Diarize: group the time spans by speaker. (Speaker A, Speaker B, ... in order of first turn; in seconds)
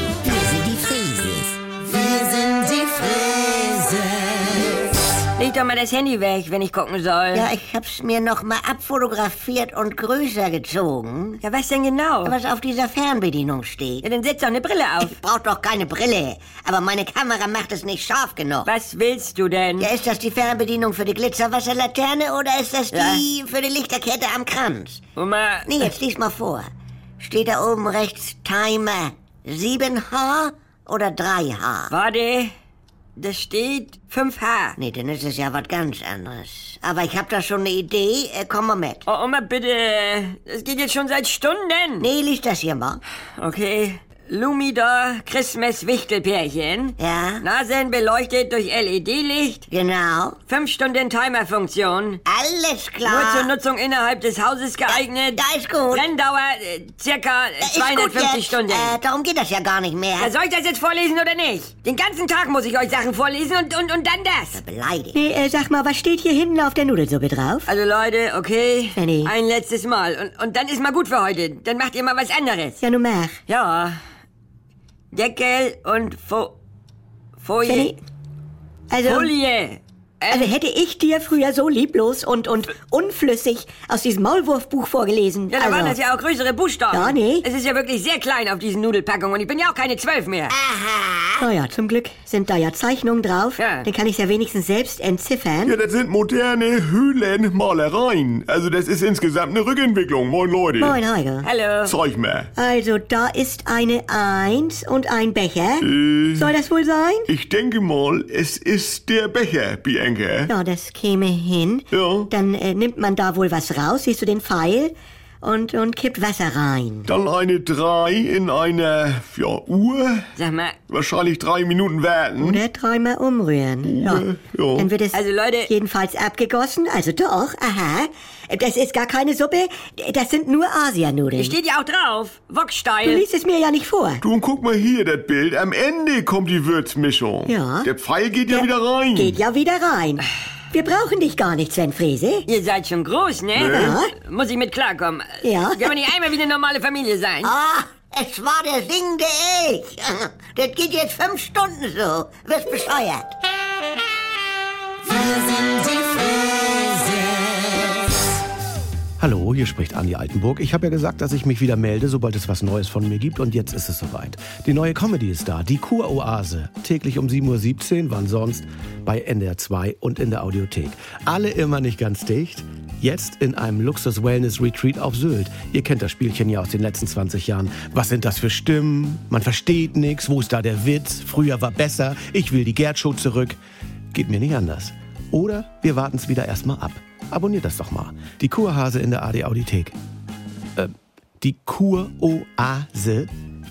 Speaker A: 0.3-4.7, 7.3-11.4, 12.2-14.1, 15.0-18.7, 19.8-25.0, 25.7-26.7, 27.2-31.9, 34.8-39.0, 42.0-43.0, 47.0-47.5, 49.7-50.4, 52.2-53.5, 54.9-56.0, 57.6-60.3, 64.5-65.2, 90.5-91.5, 147.4-153.3
Speaker B: 5.4-7.5, 11.4-12.4, 14.0-15.2, 18.6-19.9, 22.9-23.2, 25.2-25.9, 31.9-32.5, 33.2-34.8, 39.1-42.1, 43.4-49.7, 50.5-52.2, 53.0-59.0, 60.2-64.6, 67.7-72.8, 73.5-74.0, 75.1-76.5, 77.4-77.9, 79.1-80.5, 85.5-90.5, 93.6-93.9, 101.4-101.9, 120.4-120.8, 125.1-125.7, 131.4-133.2, 142.5-147.5
Speaker C: 65.1-67.7, 69.0-69.3, 72.8-73.4, 77.7-78.0, 78.9-79.3, 80.3-86.0, 86.9-87.5, 91.4-95.8, 100.8-101.5, 102.6-107.3, 110.5-117.1, 122.4-131.6, 133.0-134.2, 137.5-137.9, 138.5-142.5, 143.7-144.1, 145.4-146.0
Speaker D: 95.7-101.0, 101.8-102.5, 105.8-106.5, 107.3-110.5, 111.9-112.3, 117.1-120.3, 120.9-122.6, 123.8-124.9, 134.2-139.4, 143.6-144.0
Speaker E: 159.2-183.6, 184.1-190.0, 190.8-193.3